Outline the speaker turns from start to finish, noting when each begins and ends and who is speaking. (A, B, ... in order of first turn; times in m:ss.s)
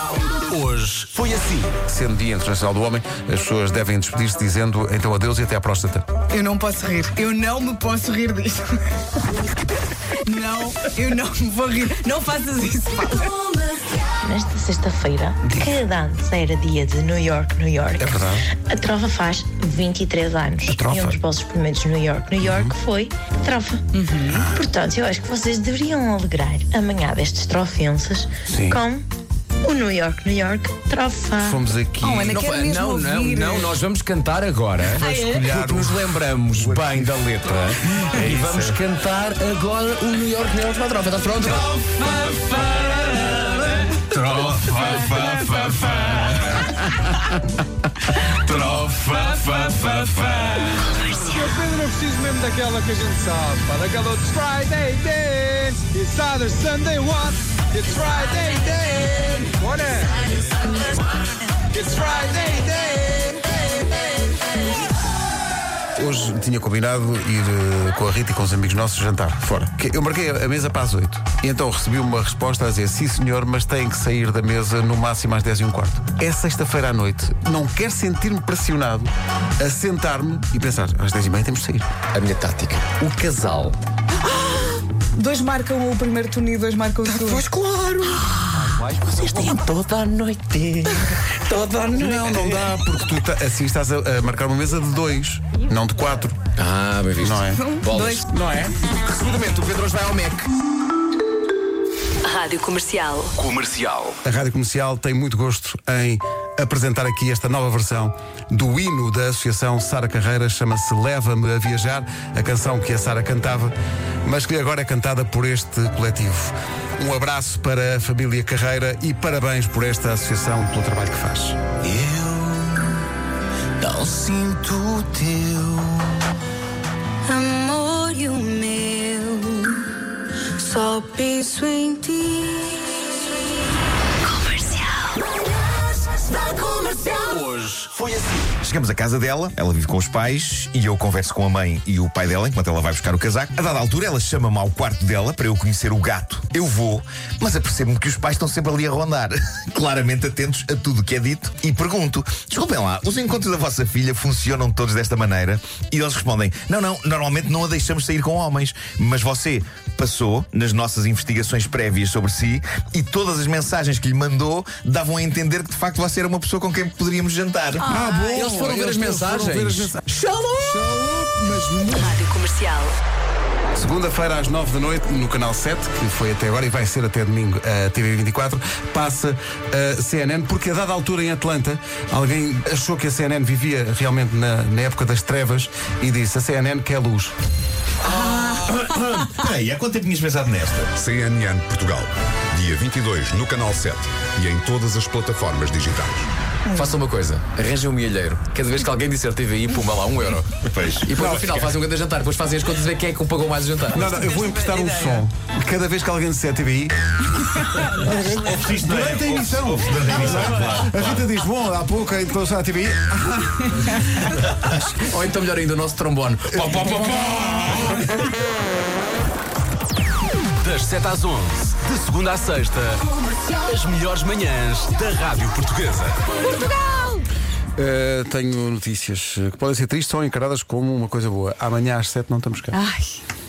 0:00.5-0:01.7 A
0:01.8-0:06.1 B
0:06.3-0:09.0 C
0:10.3-0:13.4 C
0:14.2-0:29.1 D
0:15.4-0:15.8 B
0:18.0-0:18.5 B
0:20.7-0:21.2 B
0:22.4-0:22.7 B
0:24.0-0:24.5 C
0:28.5-0:28.8 B
0:29.6-0:31.6 D
0:31.4-0:32.4 B
0:32.0-0:33.8 C
0:32.3-0:42.4 E
0:34.8-0:37.2 B
0:35.0-0:35.5 C
0:37.9-0:38.8 B
0:42.5-0:42.8 C
0:43.9-0:46.6 E
0:48.4-0:50.6 E
0:49.6-0:50.5 F
0:51.2-1:00.1 F
1:01.7-1:03.4 F
1:06.0-1:21.9 B
1:22.1-1:23.8 E
1:24.2-1:27.5 C
1:27.1-1:32.6 E
1:31.9-1:36.4 B
1:36.6-1:38.3 E
1:37.2-1:37.7 B
1:37.6-1:38.2 C
1:38.3-1:38.8 B
1:39.0-1:40.5 E
1:42.2-1:43.4 G
1:43.4-1:44.0 E
1:44.2-2:01.6 B
2:01.9-2:02.2 A
2:07.3-2:09.7 H
2:10.6-2:12.8 H
2:14.3-2:15.1 G
2:16.1-2:17.2 H
2:17.3-2:18.3 A
2:18.6-2:47.9 I
2:47.9-2:50.0 B
2:48.3-2:51.1 E
2:50.7-2:52.1 B
2:52.0-2:53.0 G
2:53.7-3:07.3 B
3:08.0-3:11.0 I
3:11.0-3:16.3 J
3:16.7-3:20.5 E
3:20.6-3:21.1 I
3:21.0-3:24.2 E
3:21.2-3:21.5 B
3:23.9-3:34.7 B
3:28.2-3:31.2 I
3:35.0-3:37.1 E
3:36.5-3:38.0 B
3:36.6-3:37.3 I
3:40.6-3:43.0 A
3:43.6-3:46.2 A
3:46.5-3:47.2 C
3:47.8-3:52.8 B
3:52.7-3:53.2 C